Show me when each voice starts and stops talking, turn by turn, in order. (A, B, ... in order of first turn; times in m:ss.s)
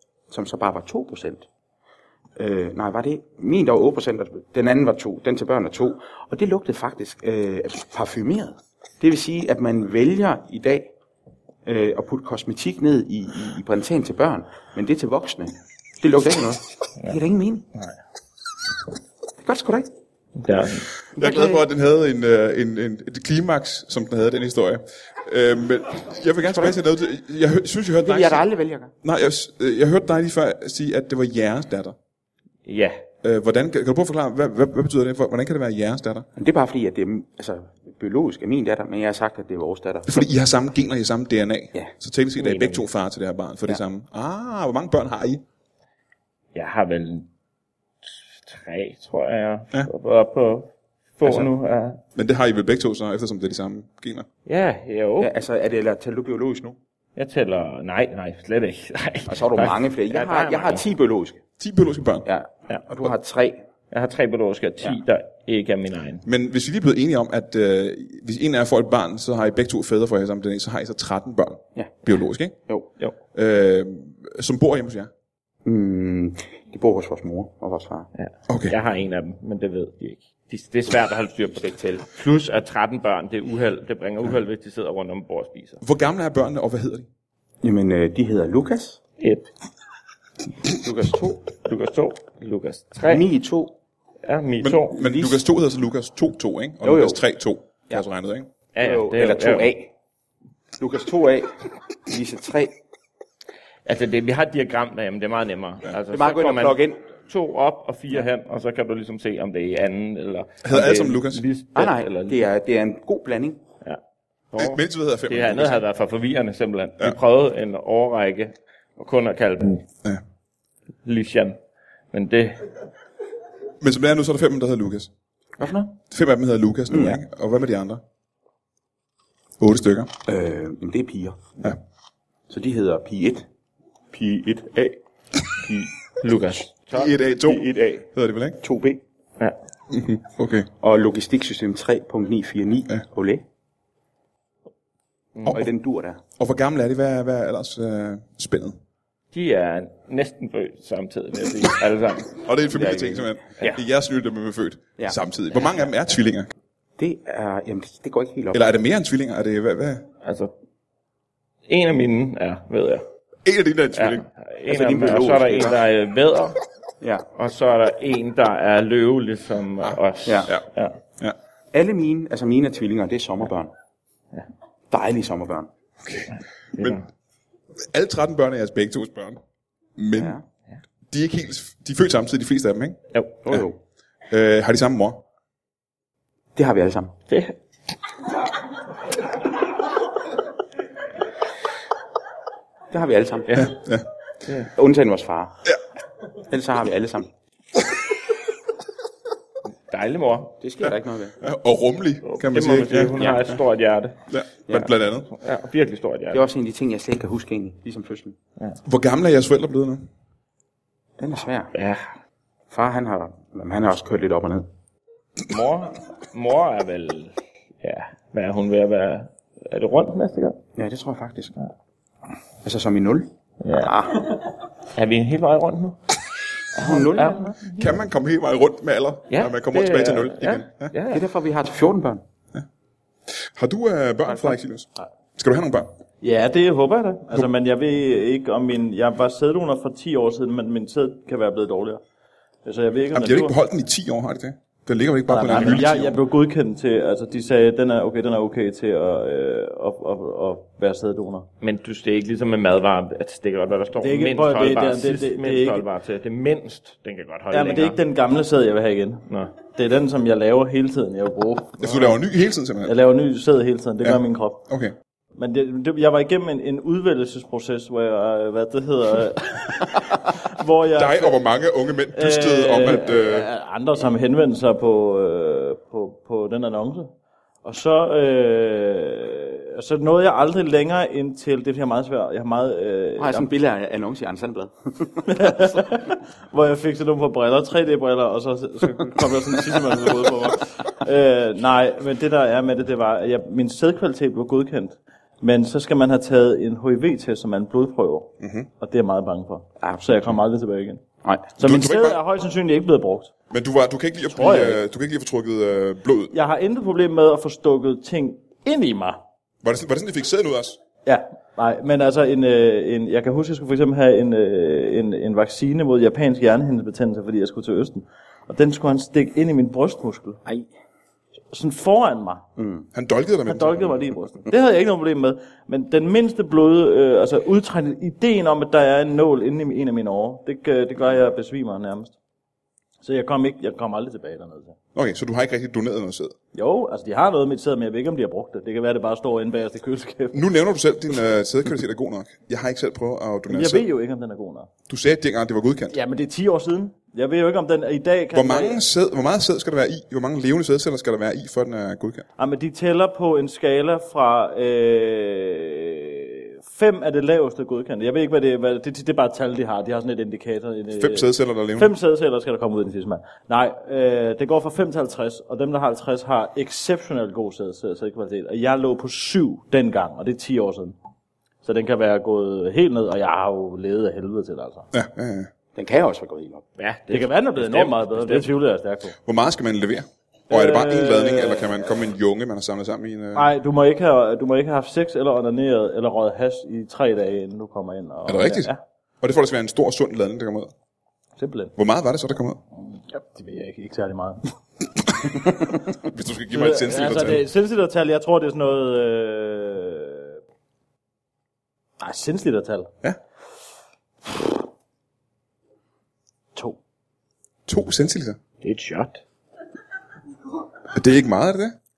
0:00.3-0:01.5 A
0:02.4-0:10.9 A
0:11.6-0:17.7 A
0:19.4-0:19.9 A
0:20.4-0:20.9 B
0:21.2-0:21.6 A
0:21.2-0:28.4 C
0:26.4-0:26.8 A
0:28.0-0:28.9 A
0:29.0-0:32.0 C
0:32.7-0:33.0 B
0:33.2-0:36.3 C
0:36.4-0:40.3 A
0:40.1-0:45.4 C
0:42.4-0:42.8 B
0:46.5-0:47.3 B
0:48.0-0:52.0 B
0:51.2-0:51.5 A
0:52.2-0:54.3 C
0:54.5-0:55.3 B
0:55.2-0:56.8 A
0:57.2-1:00.8 B
0:59.3-1:01.4 A
1:01.6-1:02.3 C
1:02.2-1:03.6 A
1:03.9-1:06.2 B
1:06.2-1:12.6 C
1:13.3-1:15.1 C
1:15.6-1:18.1 A
1:18.2-1:25.8 B
1:18.5-1:18.8 C
1:21.5-1:22.1 A
1:25.8-1:27.1 C
1:27.6-1:29.0 A
1:29.2-1:29.4 B
1:30.8-1:31.5 A
1:31.6-1:33.2 B
1:33.0-1:33.7 A
1:34.2-1:35.0 B
1:34.6-1:38.5 C
1:35.0-1:35.4 A
1:36.8-1:37.2 A
1:38.8-1:39.7 B
1:38.8-1:39.9 A
1:40.8-1:42.7 A
1:43.9-1:52.5 B
1:46.1-1:47.0 A
1:50.6-1:51.4 C
1:51.8-1:53.6 A
1:54.5-1:59.9 B
1:54.6-1:55.8 C
2:01.0-2:01.6 B
2:02.1-2:02.7 B
2:03.8-2:05.1 C
2:05.6-2:06.0 A
2:06.1-2:08.0 C
2:06.9-2:07.2 A
2:09.6-2:10.1 C
2:10.3-2:11.4 A
2:12.5-2:13.5 A
2:14.1-2:15.0 A
2:15.6-2:16.6 A
2:16.2-2:17.1 B
2:16.9-2:17.6 C
2:17.4-2:18.1 A
2:18.1-2:18.6 C
2:18.6-2:19.0 A
2:19.9-2:20.7 C
2:20.8-2:23.4 A
2:25.5-2:26.2 A
2:26.4-2:28.8 C
2:29.3-2:32.4 B
2:32.4-2:36.5 C
2:32.7-2:33.8 A
2:37.0-2:38.6 A
2:38.5-2:40.0 C
2:40.2-2:40.5 B
2:41.7-2:43.0 B
2:43.4-2:44.2 C
2:44.0-2:46.6 B
2:44.7-2:45.8 A
2:47.0-2:47.3 A
2:47.3-2:51.0 B
2:49.8-2:50.6 C
2:50.3-2:50.5 A
2:51.7-2:53.7 A
2:54.9-2:55.7 A
2:56.0-2:57.0 C
2:56.8-2:57.0 B
2:57.8-2:59.4 C
3:00.0-3:00.4 C
3:00.2-3:00.4 A
3:01.1-3:03.6 C
3:03.4-3:03.8 A
3:04.3-3:05.2 C
3:06.6-3:07.1 A
3:07.3-3:07.6 B
3:12.9-3:13.7 A
3:13.5-3:14.0 C
3:14.7-3:15.6 A
3:16.4-3:17.3 A
3:19.7-3:20.6 B
3:20.6-3:21.4 A
3:21.4-3:23.2 C
3:22.2-3:24.2 B
3:23.2-3:23.4 A
3:24.3-3:25.3 C
3:25.3-3:26.4 B
3:26.3-3:28.4 A
3:28.8-3:30.1 C
3:31.2-3:31.7 A
3:31.7-3:32.1 B
3:32.7-3:34.7 A
3:35.5-3:40.6 B
3:40.8-3:41.5 A
3:42.6-3:44.4 A
3:43.6-3:46.0 B
3:46.7-3:47.9 B
3:46.7-3:47.6 A
3:47.7-3:50.9 C
3:49.3-3:51.2 B
3:51.1-3:52.2 A
3:53.4-3:55.9 C
3:54.3-3:54.6 A
3:56.2-4:02.0 D
4:02.6-4:03.6 D
4:03.1-4:06.2 C
4:05.3-4:11.5 D
4:11.6-4:18.0 B
4:14.0-4:15.9 D
4:17.5-4:22.2 D
4:19.3-4:19.6 B
4:21.8-4:23.0 C
4:22.8-4:24.6 D
4:24.0-4:24.9 C
4:25.4-4:31.4 D
4:31.0-4:33.5 C
4:32.1-4:37.1 D
4:37.6-4:43.5 D
4:43.2-4:45.8 A
4:45.3-5:01.0 D
4:58.4-4:58.7 C
4:59.8-5:00.4 A
5:01.2-5:01.5 A
5:01.6-5:03.3 D
5:01.6-5:02.2 C
5:03.5-5:06.4 C
5:04.3-5:04.8 D
5:06.3-5:09.2 D
5:09.6-5:10.8 C
5:11.0-5:20.4 D
5:21.5-5:22.4 D
5:22.6-5:22.9 A
5:22.9-5:24.1 C
5:23.5-5:32.2 D
5:33.0-5:34.8 D
5:35.0-5:36.4 C
5:36.5-5:40.4 D
5:40.3-5:43.9 C
5:43.5-5:44.7 D
5:44.9-5:46.0 C
5:45.9-5:48.8 D
5:48.3-5:52.3 C
5:52.4-6:11.0 D
6:01.0-6:01.9 C
6:11.6-6:14.9 D
6:14.9-6:15.5 C
6:15.7-6:16.6 A
6:16.8-6:18.5 B
6:17.1-6:19.2 D
6:19.2-6:23.5 C
6:20.5-6:22.0 D
6:23.4-6:28.8 D
6:28.3-6:28.7 C
6:29.2-6:30.7 C
6:31.4-6:31.7 D
6:31.8-6:32.6 C
6:32.9-6:34.5 D
6:36.0-6:37.4 C
6:36.5-6:40.4 D
6:42.0-6:42.9 D
6:47.7-6:48.4 C
6:48.6-6:49.2 B
6:50.9-6:51.8 C